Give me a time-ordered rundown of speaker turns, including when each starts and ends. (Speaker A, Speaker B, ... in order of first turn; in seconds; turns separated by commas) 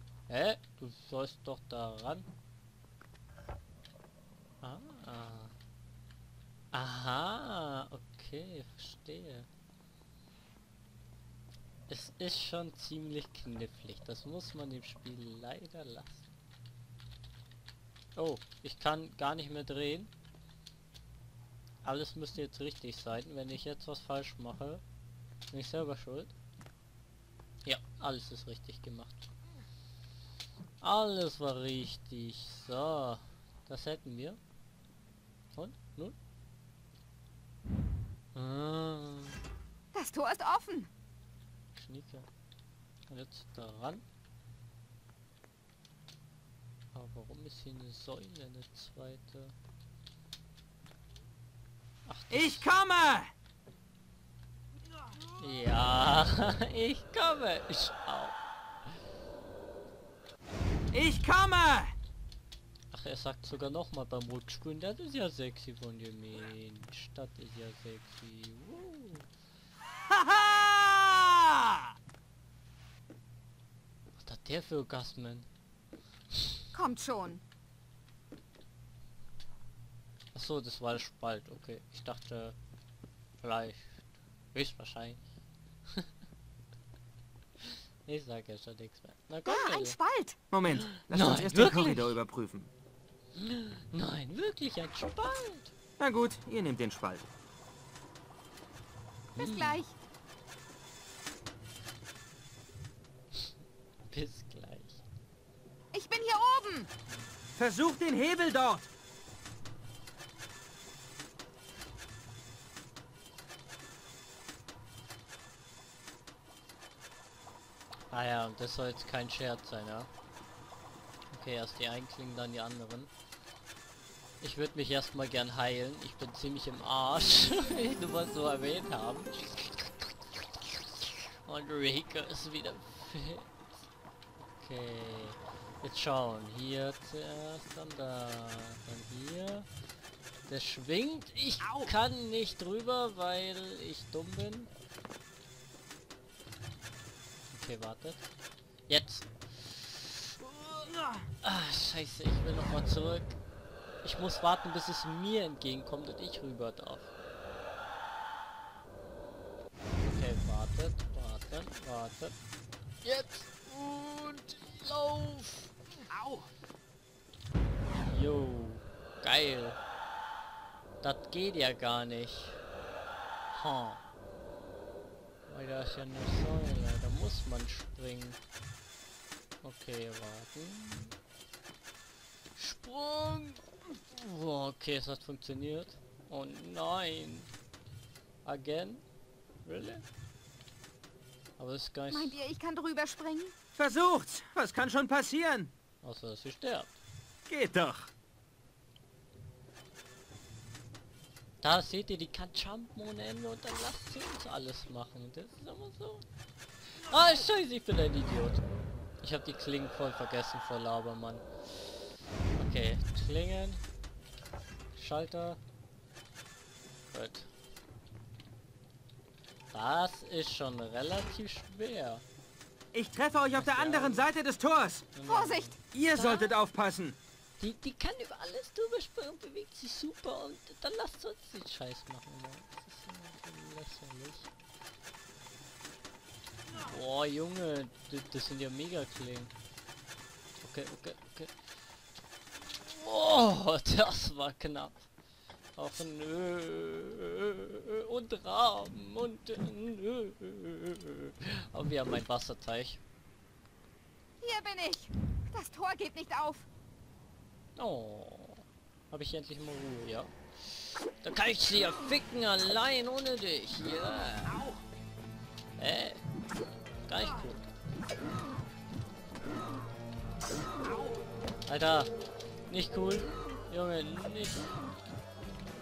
Speaker A: 0.3-2.3, Speaker A: 4.6-5.5, Speaker A: 6.7-9.5, Speaker A: 11.9-16.3, Speaker A: 18.1-20.1, Speaker A: 21.8-24.8, Speaker A: 25.5-26.3, Speaker A: 27.6-29.3, Speaker A: 30.8-34.4, Speaker A: 35.5-36.1, Speaker A: 38.3-39.4, Speaker B: 39.9-40.9, Speaker A: 41.8-42.3, Speaker A: 43.1-44.0, Speaker A: 46.9-49.5, Speaker A: 52.0-52.7, Speaker C: 52.3-53.3, Speaker A: 55.4-59.0, Speaker C: 60.9-62.0, Speaker A: 62.9-69.3, Speaker C: 70.1-71.9, Speaker A: 74.2-75.5, Speaker A: 76.3-76.6, Speaker B: 76.7-77.4, Speaker A: 80.3-82.5, Speaker A: 83.4-85.2, Speaker A: 87.6-90.0, Speaker B: 89.5-90.4, Speaker C: 90.5-92.7, Speaker A: 90.7-92.2, Speaker A: 93.3-95.7, Speaker C: 96.0-97.3, Speaker A: 99.3-99.8, Speaker B: 99.3-99.9, Speaker A: 104.0-105.0, Speaker B: 105.9-106.9, Speaker C: 107.5-108.9, Speaker A: 118.1-120.1, Speaker A: 121.3-123.1, Speaker A: 124.4-133.7, Speaker A: 134.4-139.7, Speaker A: 140.5-144.7, Speaker C: 141.6-141.9, Speaker A: 147.5-148.3, Speaker A: 148.9-150.9, Speaker C: 150.8-151.3, Speaker A: 151.4-153.4, Speaker A: 154.0-157.1, Speaker A: 160.0-162.3, Speaker A: 163.0-165.7, Speaker C: 166.1-166.5, Speaker A: 167.9-169.8, Speaker A: 171.0-172.6, Speaker A: 173.5-174.0, Speaker A: 175.5-178.4, Speaker A: 179.6-181.2, Speaker A: 182.5-187.5, Speaker A: 188.4-189.0, Speaker A: 189.6-190.0, Speaker A: 191.6-192.4, Speaker B: 192.1-193.5, Speaker C: 193.7-195.7, Speaker A: 196.0-197.0, Speaker C: 197.5-198.1, Speaker A: 201.6-206.2, Speaker A: 206.9-208.6, Speaker A: 209.2-213.8, Speaker A: 214.9-215.6, Speaker A: 217.1-217.5, Speaker A: 219.7-222.2, Speaker C: 222.9-225.1, Speaker A: 223.5-224.3, Speaker A: 225.1-226.5, Speaker B: 225.2-225.7, Speaker C: 225.9-227.2, Speaker A: 227.6-234.5, Speaker A: 236.7-239.5, Speaker A: 240.6-241.5, Speaker A: 242.7-245.1, Speaker A: 245.8-253.0, Speaker B: 254.4-256.7, Speaker A: 257.8-264.6, Speaker C: 264.4-264.8, Speaker A: 265.8-266.2, Speaker A: 267.1-267.7, Speaker C: 270.8-271.2, Speaker A: 271.7-272.1, Speaker A: 272.7-274.8